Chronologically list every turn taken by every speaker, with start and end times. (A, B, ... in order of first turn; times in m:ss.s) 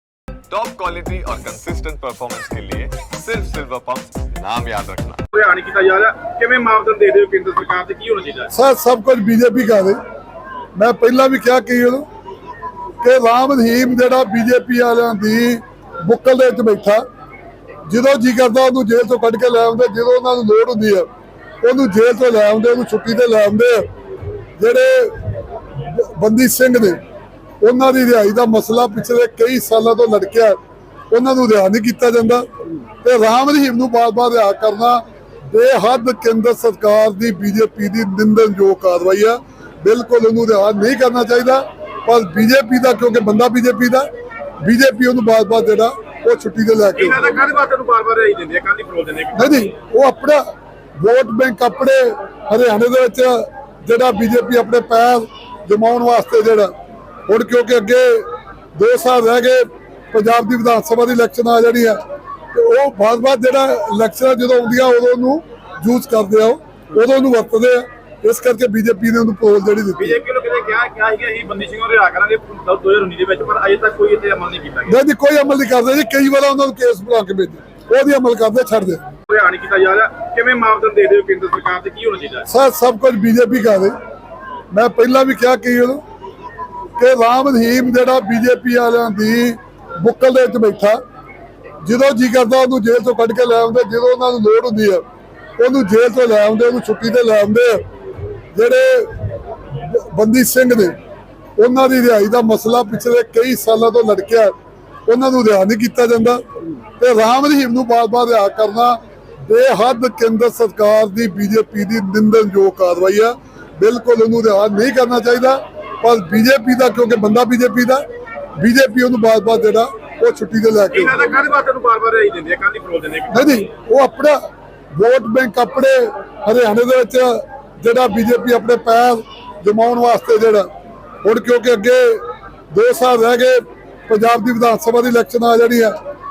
0:00.5-0:05.2 A
0:05.3-0:08.5 B
0:08.5-0:10.0 C
0:10.8-0:12.1 C
0:13.0-0:17.0 C
0:17.9-0:21.1 C
0:21.6-0:23.9 C
0:24.6-0:25.3 C
0:25.8-0:27.0 C
0:27.6-0:30.6 C
0:31.1-0:32.5 C
0:33.0-0:44.1 C
0:44.6-0:47.3 C
0:47.0-0:49.7 B
0:49.4-0:50.4 C
0:51.0-0:56.7 C
0:57.3-1:02.0 C
1:02.5-1:10.2 C
1:10.0-1:15.0 B
1:14.9-1:19.0 C
1:19.3-1:22.5 B
1:22.5-1:23.9 C
1:24.7-1:26.0 C
1:27.0-1:31.0 C
1:31.8-1:35.0 C
1:35.6-1:37.8 C
1:38.5-1:41.0 C
1:41.6-1:44.6 C
1:45.1-1:46.4 C
1:47.0-1:58.0 C
1:58.6-2:01.3 C
2:00.9-2:03.6 B
2:03.3-2:04.4 C
2:04.9-2:10.7 C
2:11.2-2:16.0 C